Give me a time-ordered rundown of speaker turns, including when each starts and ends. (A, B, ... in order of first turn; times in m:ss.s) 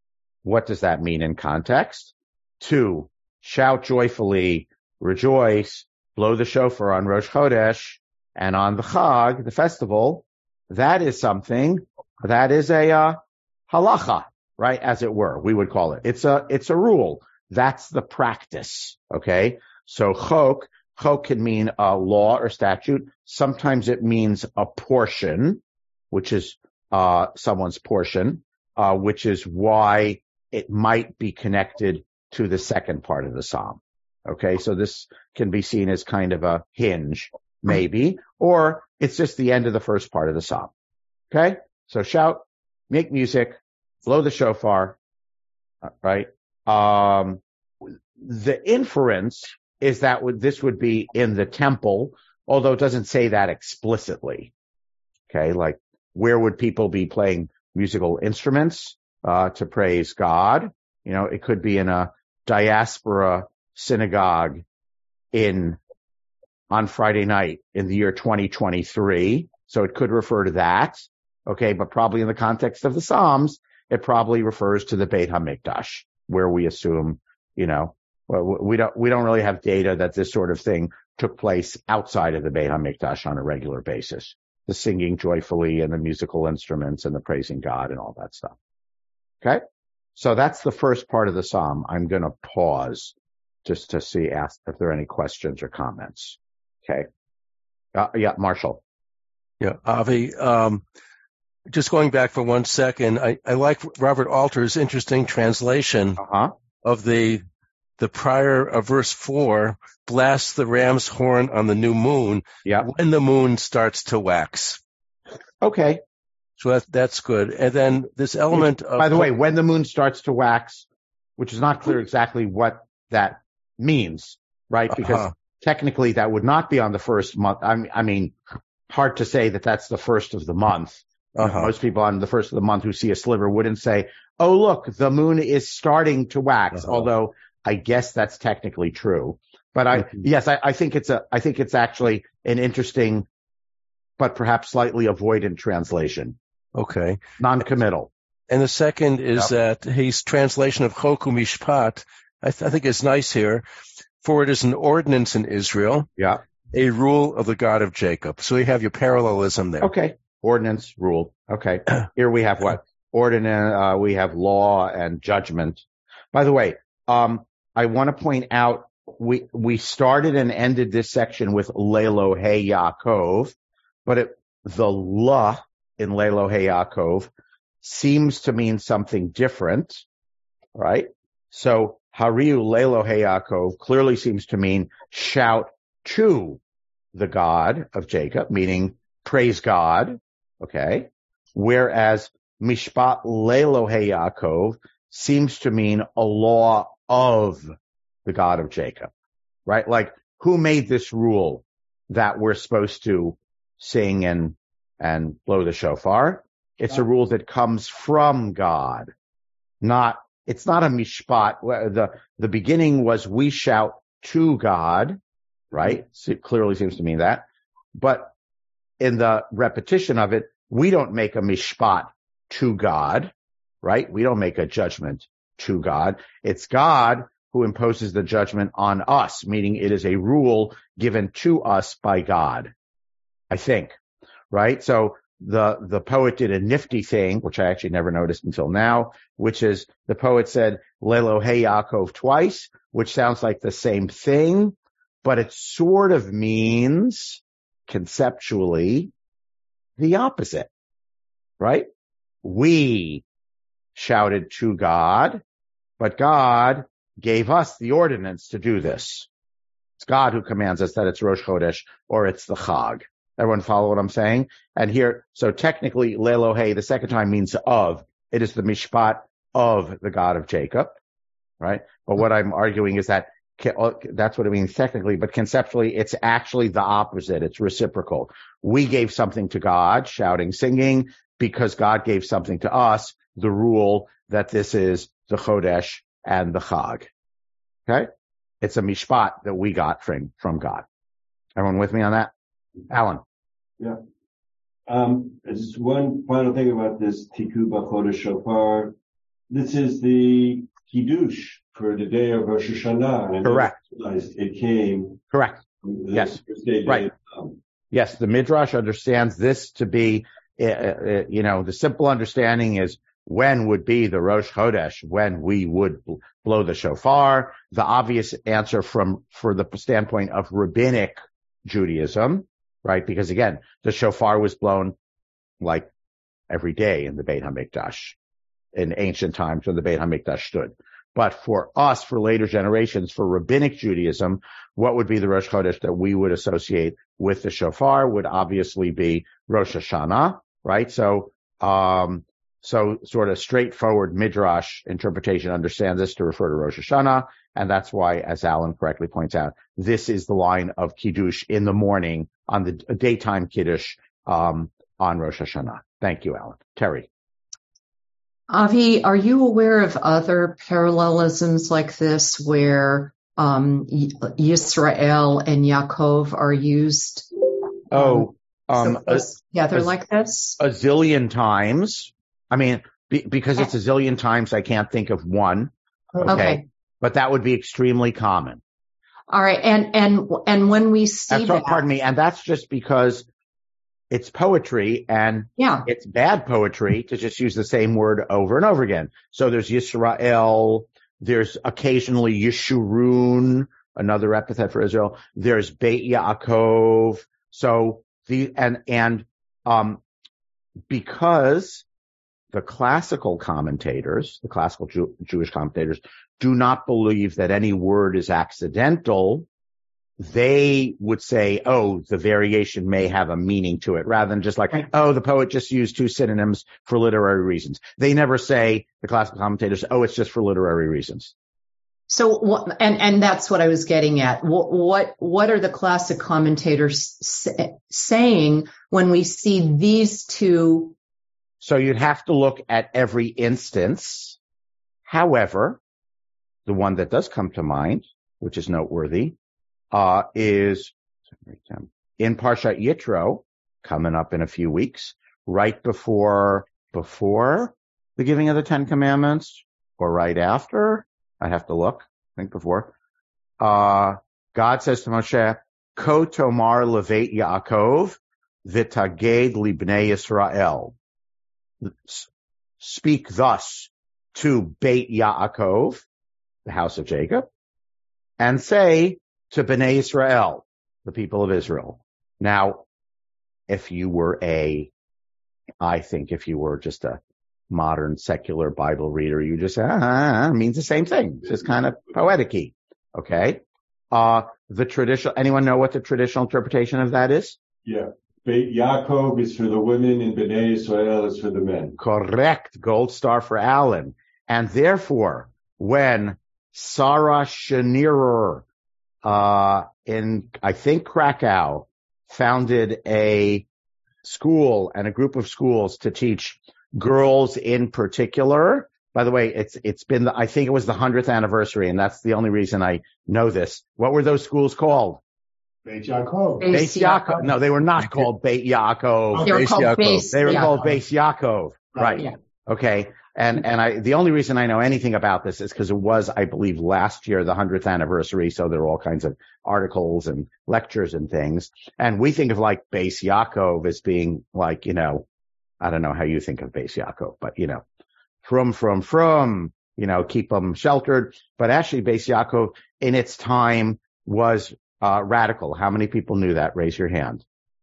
0:00.4-0:40.7 A
0:41.3-0:45.0 A
0:45.9-0:47.4 A
0:48.2-0:54.5 A
0:55.3-1:04.6 A
1:05.3-1:05.8 A
1:06.7-1:28.5 A
1:30.2-1:33.1 A
1:33.6-1:37.1 A
1:38.0-1:38.8 A
1:39.6-1:40.8 B
1:41.7-1:46.2 B
1:46.2-1:46.5 A
1:46.8-1:47.4 B
1:48.0-1:54.8 B
1:55.6-1:56.0 A
1:56.6-1:59.3 B
1:58.5-2:00.9 A
2:01.4-2:08.4 A
2:04.9-2:05.3 B
2:08.9-2:23.3 A
2:11.4-2:11.7 B
2:24.2-2:26.4 A
2:26.8-2:27.2 B
2:27.4-2:28.1 A
2:28.5-2:33.6 B
2:34.2-2:36.1 B
2:36.7-2:39.9 B
2:39.8-2:53.6 A
2:54.1-2:57.3 A
2:57.8-3:00.0 A
3:00.8-3:06.6 A
3:07.2-3:17.7 A
3:18.2-3:19.1 A
3:19.7-3:29.1 A
3:29.8-3:35.2 A
3:35.7-3:38.3 A
3:39.0-3:43.3 A
3:43.8-3:52.7 A
3:53.5-3:54.0 A
3:54.5-4:09.1 A
4:10.0-4:10.7 A
4:11.6-4:11.9 A
4:12.4-4:13.2 A
4:14.0-4:15.4 A
4:16.0-4:19.3 A
4:20.0-4:31.0 A
4:31.6-4:47.1 A
4:48.6-4:50.8 A
4:51.6-4:52.3 A
4:52.9-4:53.2 A
4:54.9-4:58.9 C
4:59.5-5:05.2 C
5:03.4-5:03.8 A
5:05.3-5:05.6 A
5:05.8-5:07.6 C
5:06.1-5:07.1 A
5:07.9-5:25.0 A
5:25.6-5:25.9 A
5:26.5-5:28.2 A
5:28.8-5:57.1 A
5:58.5-6:07.3 D
6:07.9-6:09.9 A
6:07.9-6:10.6 D
6:10.6-6:15.7 A
6:16.2-6:16.6 D
6:16.2-6:18.6 A
6:19.3-6:21.8 D
6:21.3-6:23.3 A
6:24.1-6:40.0 A
6:25.6-6:25.9 D
6:40.9-6:41.8 A
6:42.5-6:49.5 A
6:50.2-7:01.3 A
7:02.1-7:10.9 D
7:11.6-7:14.4 A
7:15.1-7:15.8 A
7:16.7-7:19.4 A
7:19.9-7:32.9 A
7:33.6-7:40.9 A
7:41.8-7:42.3 A
7:42.8-7:46.0 A
7:46.7-7:47.5 A
7:48.4-7:52.8 A
7:53.7-7:54.9 A
7:55.8-8:07.6 A
8:07.8-8:12.0 C
8:12.0-8:18.6 A
8:19.2-8:23.7 A
8:24.2-8:35.2 A
8:35.9-8:36.7 E
8:36.6-8:37.5 D
8:36.7-8:55.2 A
8:39.3-8:41.0 E
8:39.4-8:40.7 D
8:55.8-8:57.8 A
8:58.4-9:07.4 A